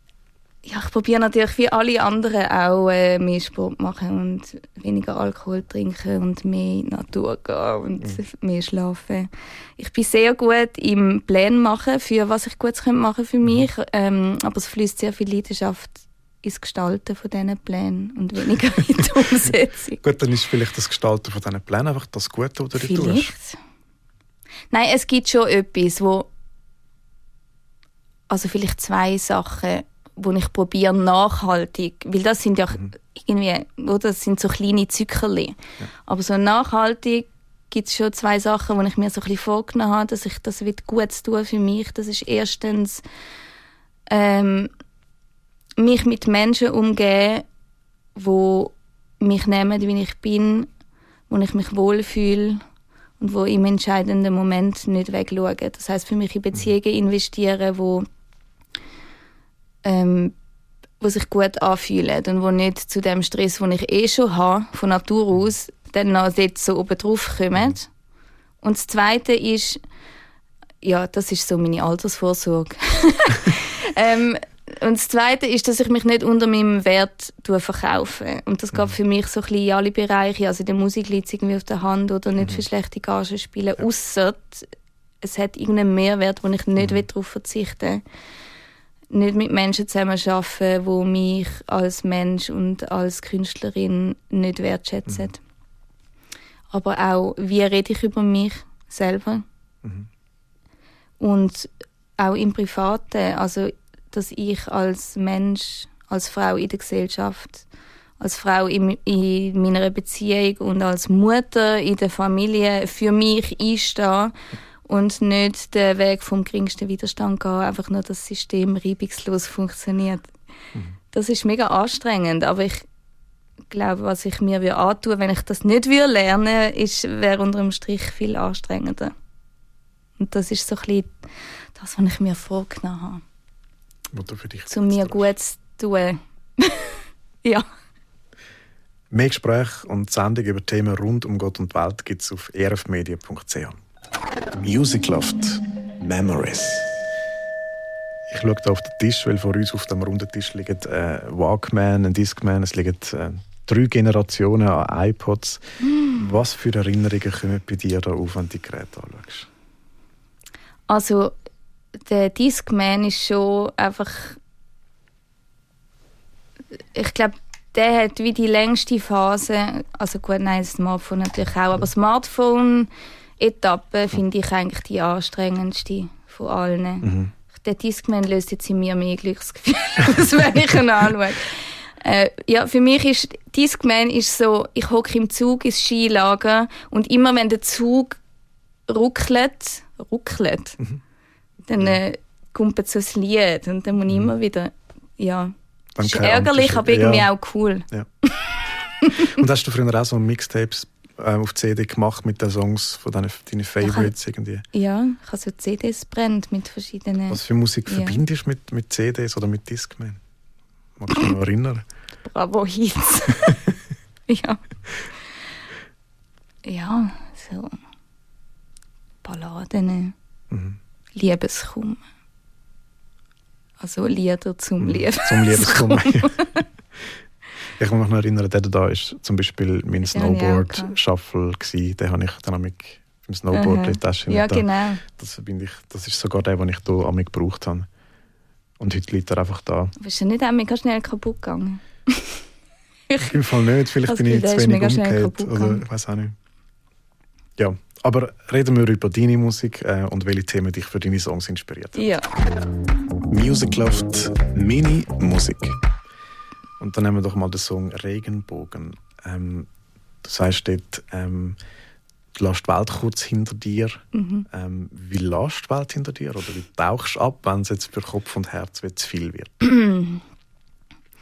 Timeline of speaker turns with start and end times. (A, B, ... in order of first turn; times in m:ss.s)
0:00.6-0:20.0 A
0:20.0-0:23.3 B
0:22.8-0:23.6 A
0:24.7-0:26.3 A
0:28.3-0:43.0 A
0:44.1-0:44.7 A
0:45.8-0:47.5 A
0:48.2-0:50.7 A
0:51.3-0:52.6 A
0:53.2-0:58.1 A
0:59.8-1:00.4 A
1:01.0-1:07.9 A
1:08.6-1:09.8 A
1:10.8-1:24.7 A
1:25.2-1:28.0 A
1:29.1-1:35.4 A
1:36.7-1:39.5 A
1:41.2-1:47.7 A
1:48.2-1:54.3 A
1:54.9-2:00.3 A
2:01.1-2:02.8 A
2:03.7-2:09.1 A
2:10.2-2:11.2 A
2:11.8-2:13.2 A
2:14.1-2:15.3 B
2:14.7-2:17.7 A
2:19.1-2:23.8 B
2:24.6-2:26.9 B
2:28.3-2:39.5 B
2:35.8-2:36.2 A
2:40.9-2:41.4 A
2:42.0-2:44.4 A
2:46.7-3:08.2 A
2:57.0-2:57.3 B
3:08.9-3:10.8 A
3:11.7-3:19.4 A
3:16.0-3:17.3 B
3:19.0-3:24.6 B
3:23.8-3:24.1 A
3:24.7-3:28.2 A
3:27.3-3:30.2 B
3:31.0-3:31.8 B
3:32.3-3:33.6 A
3:34.3-3:34.6 A
3:36.6-3:37.8 A
3:39.2-3:40.2 A
3:40.5-3:40.8 B
3:41.2-3:42.0 A
3:43.8-3:46.5 A
3:44.8-3:46.5 B
3:47.8-3:57.9 B
3:50.1-3:50.9 A
3:53.5-3:55.0 A
3:58.8-3:59.9 B
4:00.0-4:02.4 A
4:03.1-4:03.4 A
4:03.2-4:06.4 B
4:04.1-4:05.8 A
4:07.6-4:12.1 B
4:12.0-4:12.3 A
4:13.3-4:15.8 B
4:16.8-4:19.7 B
4:20.2-4:21.6 B
4:22.3-4:29.5 B
4:24.1-4:24.5 A
4:29.6-4:30.2 A